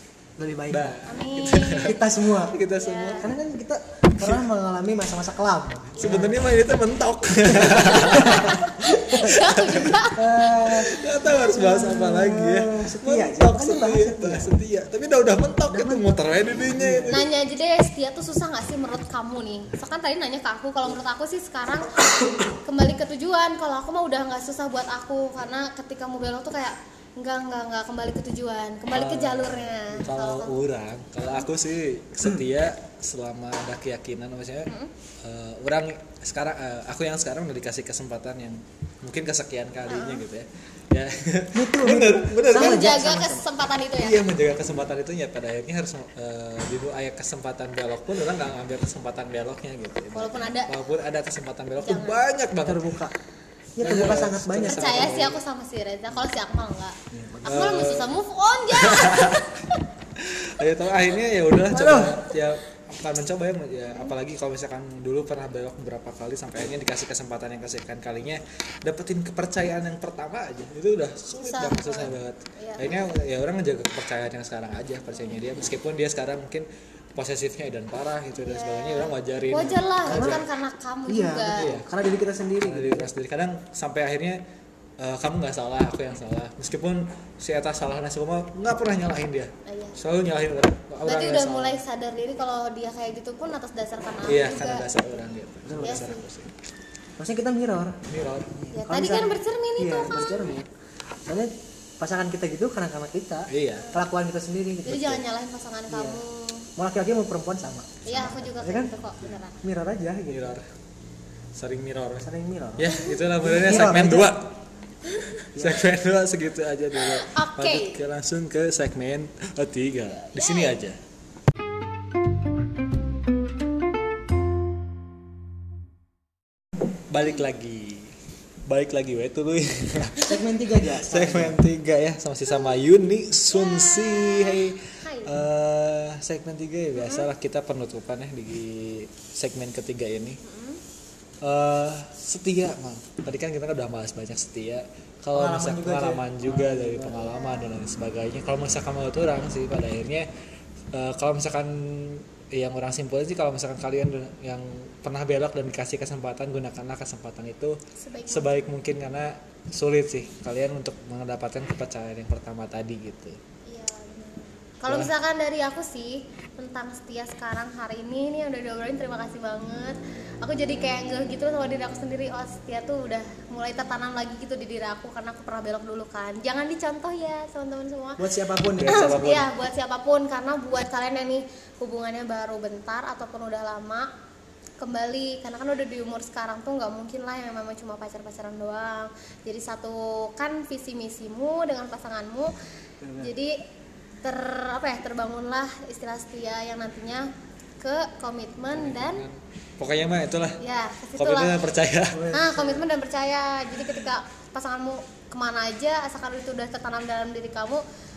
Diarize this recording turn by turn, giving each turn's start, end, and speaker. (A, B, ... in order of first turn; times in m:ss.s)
0:00.4-0:01.0 A
0:00.7-0:03.3 B
0:01.0-0:02.0 C
0:01.8-0:06.4 A
0:02.7-0:03.3 C
0:06.0-0:08.6 B
0:07.5-0:09.4 A
0:07.8-0:10.8 C
0:09.2-0:09.9 B
0:10.0-0:14.6 A
0:10.7-0:17.3 B
0:15.7-0:17.2 A
0:17.1-0:30.6 C
0:28.9-0:34.7 B
0:31.2-0:31.5 C
0:34.6-0:34.9 C
0:35.2-0:43.0 B
0:39.9-0:40.2 C
0:41.5-0:43.4 A
0:42.5-0:44.2 C
0:44.0-0:53.0 B
0:50.1-0:50.7 C
0:51.8-0:52.2 C
0:52.6-0:53.1 A
0:53.8-0:55.3 A
0:53.8-0:55.4 B
0:54.6-0:59.8 C
0:57.1-0:57.8 A
0:57.4-0:58.2 B
0:58.7-0:59.5 B
1:00.2-1:20.4 B
1:01.7-1:02.2 A
1:11.3-1:13.2 C
1:18.4-1:21.7 C
1:20.0-1:20.4 A
1:21.1-1:23.1 A
1:21.6-1:21.8 B
1:22.6-1:24.4 B
1:25.0-1:31.8 B
1:29.6-1:30.0 C
1:31.0-1:35.2 C
1:34.2-1:36.5 B
1:35.6-1:36.1 A
1:35.8-1:36.2 C
1:37.2-1:38.0 A
1:38.1-1:38.6 B
1:38.5-1:40.7 A
1:38.7-1:40.5 C
1:41.2-1:45.2 A
1:43.5-1:43.9 B
1:44.8-1:46.7 C
1:45.9-1:46.2 A
1:46.8-1:48.9 A
1:48.0-1:49.6 C
1:49.6-1:50.5 A
1:50.3-1:50.6 B
1:51.5-1:54.5 B
1:52.2-1:54.3 A
1:55.1-2:01.0 B
1:55.5-1:55.8 A
1:57.0-1:58.0 C
2:00.1-2:00.8 C
2:07.1-2:08.1 B
2:08.7-2:10.4 B
2:10.2-2:11.6 A
2:11.0-2:20.4 B
2:12.5-2:12.8 C
2:13.5-2:15.4 C
2:17.0-2:17.3 C
2:20.4-2:20.8 C
2:21.4-2:30.3 B
2:25.3-2:27.3 A
2:27.2-2:27.7 C
2:30.9-2:43.4 B
2:38.0-2:38.6 C
2:43.7-2:58.2 C
2:58.2-2:59.1 A
2:58.8-2:59.5 B
2:58.8-3:04.1 C
3:04.8-3:12.5 C
3:13.0-3:13.3 A
3:13.2-3:13.6 C
3:14.2-3:17.3 C
3:17.8-3:19.2 C
3:18.7-3:20.6 B
3:20.6-3:21.6 C
3:21.2-3:22.3 B
3:22.1-3:22.8 A
3:22.3-3:27.8 C